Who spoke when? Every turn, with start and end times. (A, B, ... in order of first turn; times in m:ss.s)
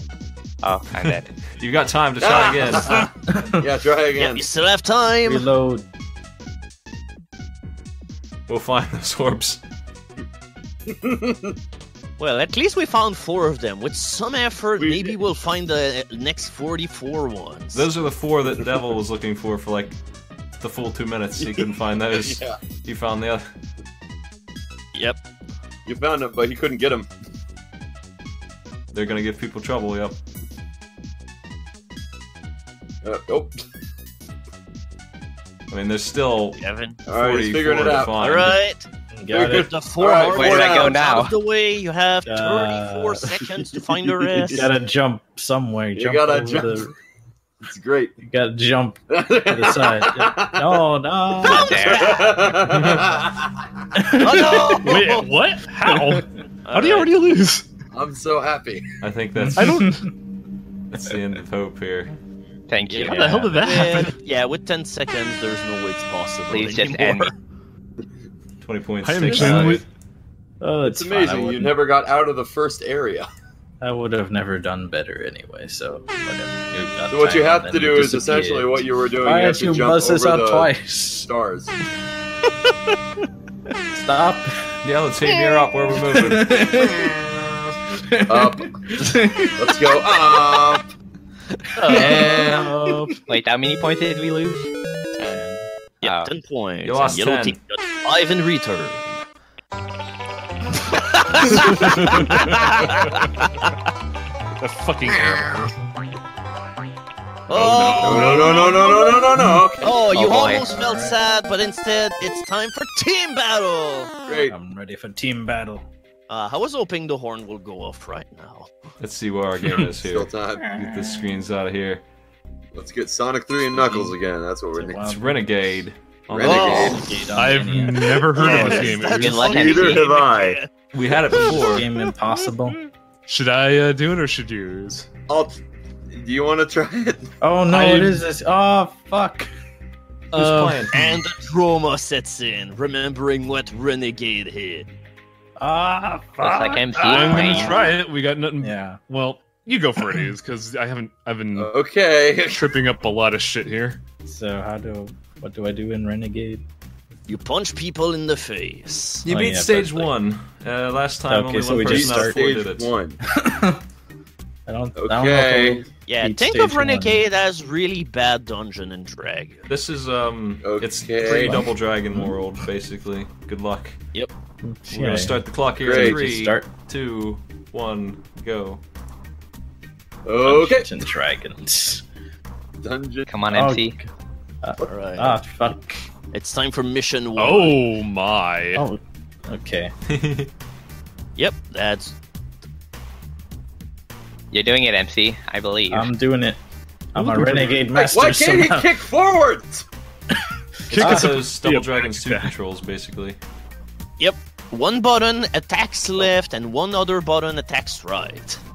0:00.6-0:01.3 A
0:01.0-0:03.1 B
0:02.2-0:04.5 C
0:03.3-0:03.6 D
0:04.2-0:05.5 E
0:05.2-0:05.9 D
0:08.5-0:09.6 B
0:10.9-0:11.6 C
0:12.2-0:17.9 E
0:14.8-0:15.2 C
0:17.7-0:20.0 B
0:20.6-0:23.5 B
0:21.4-0:22.6 C
0:24.9-0:25.2 E
0:25.9-0:27.1 C
0:28.9-0:30.2 B
0:33.0-0:33.5 C
0:35.7-0:38.6 B
0:36.6-0:37.0 E
0:37.1-0:38.5 C
0:38.2-0:44.6 E
0:39.1-0:39.7 D
0:39.3-0:41.0 C
0:40.2-0:41.3 A
0:42.3-0:43.8 D
0:44.3-0:46.9 D
0:44.4-0:44.6 C
0:46.0-0:46.9 C
0:47.6-0:48.2 C
0:48.2-0:52.0 D
0:49.1-0:50.8 C
0:51.4-0:52.3 A
0:51.4-0:52.5 E
0:51.9-0:53.7 C
0:53.9-0:55.0 D
0:54.2-0:55.3 E
0:54.8-0:57.7 F
0:55.9-0:56.2 D
0:56.7-0:57.1 E
0:57.9-0:58.9 C
0:59.0-0:59.9 B
0:59.4-1:00.1 D
0:59.6-1:00.1 F
1:00.9-1:02.1 B
1:02.7-1:03.5 A
1:02.9-1:07.3 E
1:03.0-1:04.2 F
1:03.1-1:03.6 D
1:06.5-1:07.3 A
1:08.6-1:09.8 B
1:09.0-1:09.8 F
1:09.3-1:09.7 D
1:10.6-1:11.8 D
1:10.8-1:13.3 C
1:13.8-1:21.3 D
1:17.1-1:21.7 C
1:23.9-1:24.7 D
1:24.8-1:26.6 B
1:26.1-1:27.1 D
1:26.9-1:27.7 C
1:27.9-1:30.6 D
1:28.3-1:30.9 C
1:31.8-1:33.2 F
1:31.8-1:33.1 D
1:31.9-1:32.7 C
1:33.3-1:34.7 A
1:35.2-1:35.7 D
1:36.0-1:39.2 E
1:36.0-1:36.3 A
1:36.8-1:37.6 B
1:40.8-1:43.7 E
1:41.5-1:42.3 F
1:44.6-1:45.7 F
1:45.2-1:45.7 C
1:47.5-1:48.8 E
1:47.5-1:49.1 F
1:47.8-1:50.1 C
1:49.8-1:54.2 E
1:50.1-1:50.7 A
1:50.1-1:51.2 D
1:54.3-1:54.6 C
1:54.4-1:55.9 D
1:56.3-1:58.9 E
1:59.0-2:02.0 B
2:00.0-2:00.7 C
2:00.6-2:01.3 D
2:02.7-2:05.2 C
2:03.7-2:04.1 D
2:04.8-2:05.8 D
2:05.0-2:07.0 B
2:06.3-2:07.0 C
2:06.4-2:07.3 E
2:06.6-2:09.3 D
2:07.3-2:09.7 F
2:08.0-2:12.1 E
2:09.0-2:10.1 A
2:09.4-2:10.6 C
2:10.9-2:11.9 B
2:11.5-2:12.8 D
2:13.3-2:15.1 F
2:15.3-2:15.6 C
2:16.1-2:17.3 C
2:17.4-2:19.5 D
2:17.7-2:18.2 F
2:20.3-2:21.2 F
2:20.4-2:20.9 B
2:20.9-2:24.9 E
2:25.6-2:27.9 D
2:26.4-2:27.8 A
2:27.0-2:31.7 F
2:28.6-2:29.0 D
2:31.6-2:32.6 C
2:32.5-2:34.0 F
2:34.2-2:36.6 D
2:37.3-2:39.2 E
2:39.2-2:42.9 B
2:39.3-2:40.1 D
2:41.3-2:42.4 D
2:41.8-2:43.2 C
2:43.2-2:43.8 D
2:44.7-2:47.2 D
2:45.0-2:45.8 C
2:46.1-2:49.7 E
2:49.7-2:54.0 B
2:50.6-2:51.7 C
2:51.2-2:52.7 D
2:54.6-2:56.7 D
2:54.9-2:58.8 B
2:55.8-2:56.3 C
3:00.2-3:00.9 C
3:00.4-3:02.0 D
3:02.8-3:03.3 C
3:03.3-3:04.0 A
3:03.5-3:04.1 D
3:04.6-3:06.1 D
3:04.8-3:05.4 E
3:06.3-3:07.8 E
3:07.4-3:08.8 F
3:08.8-3:09.9 D
3:10.1-3:10.5 B
3:11.4-3:12.2 E
3:14.5-3:16.1 A
3:15.9-3:16.6 D
3:17.1-3:19.0 D
3:17.2-3:18.0 F
3:18.0-3:19.9 C
3:20.3-3:21.4 D
3:20.9-3:23.4 B
3:21.0-3:22.5 F
3:24.2-3:28.6 E